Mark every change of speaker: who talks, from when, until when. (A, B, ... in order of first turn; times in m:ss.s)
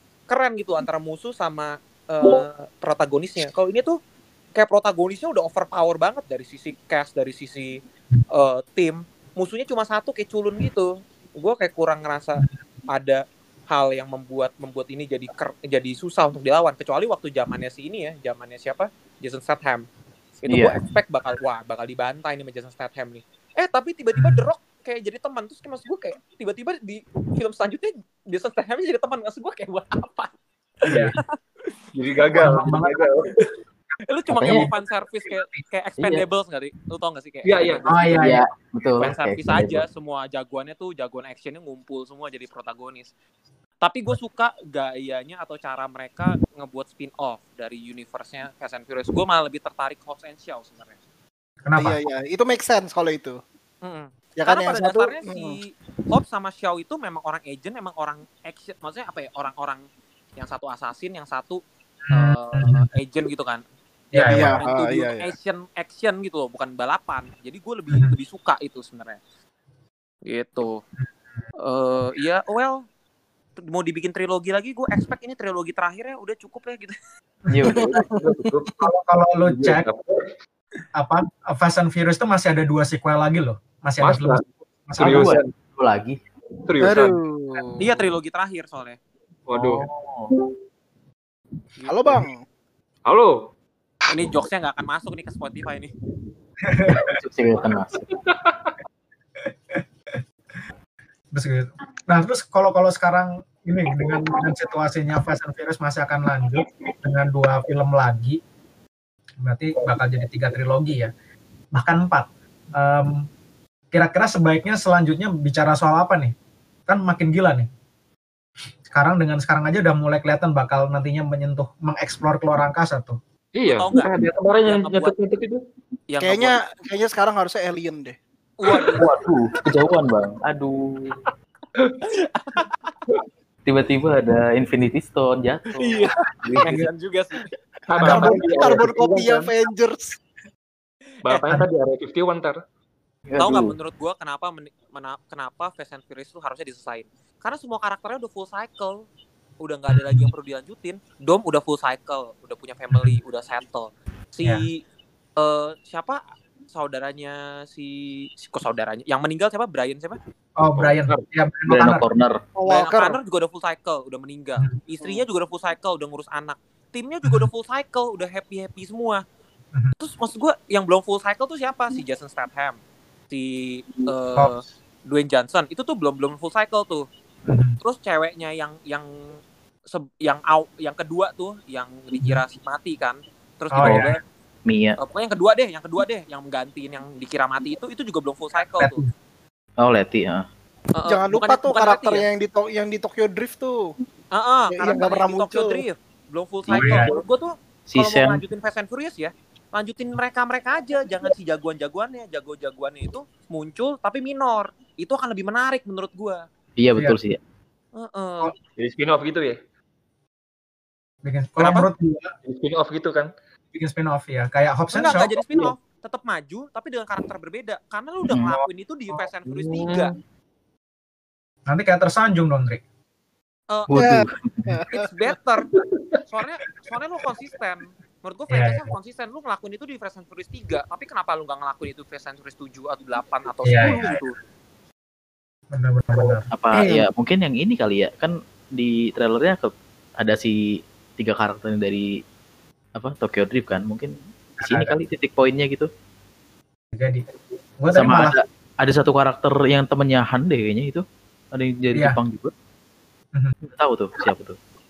0:00.3-0:04.0 A
0:04.6-0:07.8 A
0:08.3-0:19.8 A
0:20.4-0:30.3 A
0:20.5-0:20.8 B
0:24.2-0:24.4 C
0:30.8-0:31.2 A
0:30.8-0:31.1 C
0:31.9-0:33.3 D
0:32.4-0:33.1 C
0:34.1-0:38.3 A
0:34.3-0:34.7 B
0:35.3-0:35.6 C
0:37.4-0:37.8 D
0:37.9-0:38.4 C
0:38.1-0:39.8 B
0:39.0-0:43.1 A
0:43.8-0:51.0 A
0:51.6-0:52.0 C
0:51.8-0:53.4 E
0:53.8-0:59.8 A
0:54.4-0:55.6 E
1:00.4-1:03.6 A
1:02.1-1:02.9 C
1:04.1-1:04.6 C
1:04.2-1:09.2 A
1:04.2-1:05.3 E
1:10.2-1:10.8 A
1:11.6-1:12.8 A
1:13.6-1:17.0 A
1:17.5-1:18.0 B
1:17.7-1:18.2 E
1:18.2-1:18.8 D
1:18.8-1:19.8 C
1:19.4-1:20.2 D
1:20.9-1:25.3 C
1:24.0-1:24.4 D
1:25.0-1:25.5 D
1:25.0-1:26.2 B
1:26.6-1:27.2 D
1:26.8-1:27.9 E
1:27.8-1:29.0 A
1:29.5-1:29.8 D
1:29.5-1:30.3 B
1:31.8-1:32.1 A
1:31.8-1:32.4 E
1:33.0-1:33.3 D
1:34.1-1:35.9 A
1:36.7-1:37.1 C
1:36.9-1:38.1 B
1:38.3-1:38.7 D
1:39.4-1:40.2 C
1:41.3-1:48.4 C
1:49.4-1:51.1 C
1:51.7-1:53.3 C
1:53.9-1:56.3 C
1:56.9-1:57.7 C
1:58.9-2:03.2 C
2:03.6-2:05.6 D
2:03.6-2:04.1 A
2:04.6-2:05.1 A
2:06.1-2:06.6 A
2:06.2-2:08.2 E
2:08.6-2:09.1 A
2:09.0-2:11.1 B
2:12.3-2:12.9 A
2:13.6-2:16.8 B
2:15.8-2:17.4 A
2:16.6-2:16.9 C
2:17.9-2:19.5 D
2:18.0-2:18.6 A
2:18.0-2:20.2 E
2:21.2-2:22.6 D
2:23.3-2:23.7 B
2:23.4-2:29.0 A
2:29.6-2:34.8 A
2:29.9-2:30.3 C
2:32.9-2:33.2 C
2:35.4-2:40.2 A
2:40.6-2:42.0 C
2:40.8-2:41.2 D
2:41.7-2:42.4 B
2:42.5-2:43.2 E
2:42.7-2:49.2 A
2:50.0-2:52.8 A
2:53.3-2:57.0 A
2:57.5-2:57.8 C
2:57.8-2:59.1 A
2:59.9-3:04.2 A
3:02.2-3:02.4 C
3:03.7-3:04.2 C
3:03.8-3:04.1 B
3:04.7-3:05.0 B
3:05.0-3:09.0 A
3:08.8-3:09.1 C
3:09.8-3:10.4 B
3:11.0-3:12.2 A
3:11.1-3:13.9 E
3:14.3-3:26.4 A
3:14.7-3:15.8 E
3:16.7-3:17.1 C
3:17.9-3:18.4 B
3:26.8-3:27.4 B
3:28.0-3:28.5 A
3:28.8-3:29.6 D
3:31.2-3:32.3 C
3:31.6-3:31.9 A
3:32.5-3:33.3 D
3:33.7-3:35.4 C
3:34.9-3:40.1 A
3:39.4-3:40.1 D
3:41.7-3:42.8 C
3:43.9-3:44.8 B
3:43.9-3:45.0 E
3:44.9-3:45.7 A
3:46.3-3:54.3 A
3:48.5-3:48.9 C
3:53.6-3:54.2 C
3:55.7-3:56.5 C
3:56.5-4:00.6 B
4:01.2-4:02.1 B
4:03.0-4:05.9 B
4:04.6-4:04.9 C
4:07.0-4:07.2 C
4:07.8-4:08.4 C
4:07.9-4:11.0 B
4:11.5-4:12.5 B
4:13.6-4:14.6 B